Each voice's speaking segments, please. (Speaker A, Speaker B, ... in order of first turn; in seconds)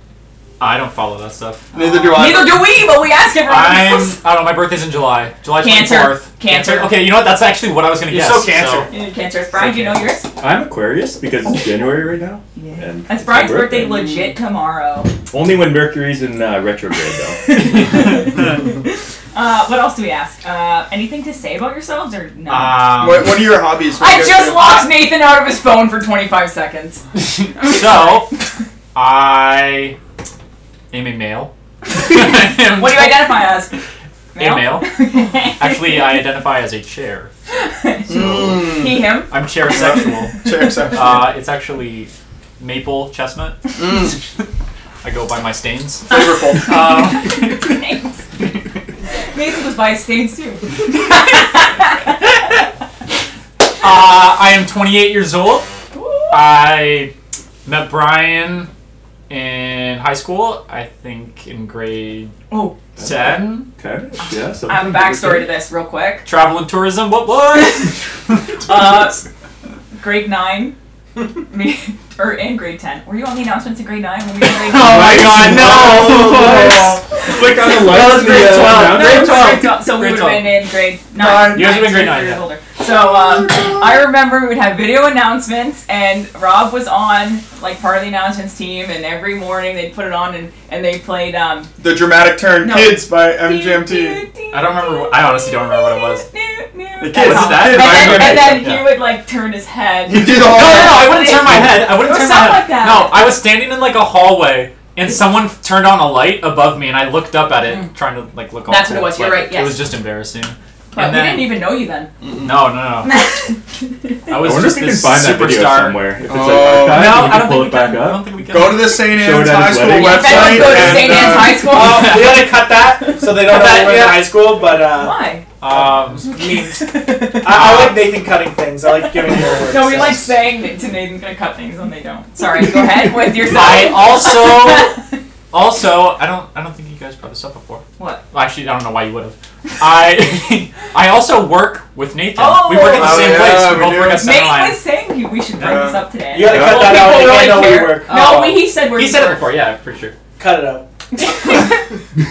Speaker A: 0.6-1.6, 3.4-8.9, 9.5-10.1, 22.5-23.5, 27.2-28.3, 28.9-30.0, 30.9-33.3, 34.4-37.3, 39.3-43.8, 45.0-47.8, 53.8-55.7, 56.3-57.1, 57.6-58.7, 59.3-62.4, 63.0-63.7, 66.2-68.9, 74.5-80.6, 81.5-82.5, 94.5-96.3, 97.1-98.9, 100.4-111.6, 112.4-113.2, 114.3-116.1, 116.8-119.0, 121.6-122.6, 123.3-124.3, 125.6-126.3, 127.5-128.0, 133.4-134.9, 135.5-144.8, 145.6-145.9, 146.6-150.2
Speaker B: 1.7-4.2, 5.6-7.0, 8.9-10.3, 12.6-15.1, 17.4-22.9, 24.0-27.0, 27.6-28.2, 32.6-33.7, 34.4-36.2, 37.5-40.7, 47.2-48.2, 49.1-52.3, 55.9-56.4, 62.5-62.8, 64.2-66.3, 68.7-69.2, 70.0-70.8, 71.5-75.4, 77.2-91.7, 92.6-103.2, 108.7-109.9, 110.9-112.1, 113.0-114.1, 119.8-122.5, 124.6-125.5, 126.2-127.7, 129.2-135.0, 142.4-149.5, 151.1-151.9
Speaker C: 1.7-2.7, 23.0-24.9, 38.1-39.0, 39.6-41.4, 43.8-44.2, 46.1-46.9, 81.2-81.8, 83.0-83.9, 91.8-94.2, 97.0-98.7, 100.1-101.7, 112.2-112.6, 116.3-117.3, 118.5-121.7, 142.8-144.3, 145.6-146.9
Speaker D: 8.1-8.9, 120.9-130.3, 146.3-148.2, 150.4-150.8
Speaker E: 10.4-14.1, 15.3-17.6, 63.0-65.5, 74.8-79.7, 114.3-118.3, 119.0-121.1, 146.5-147.1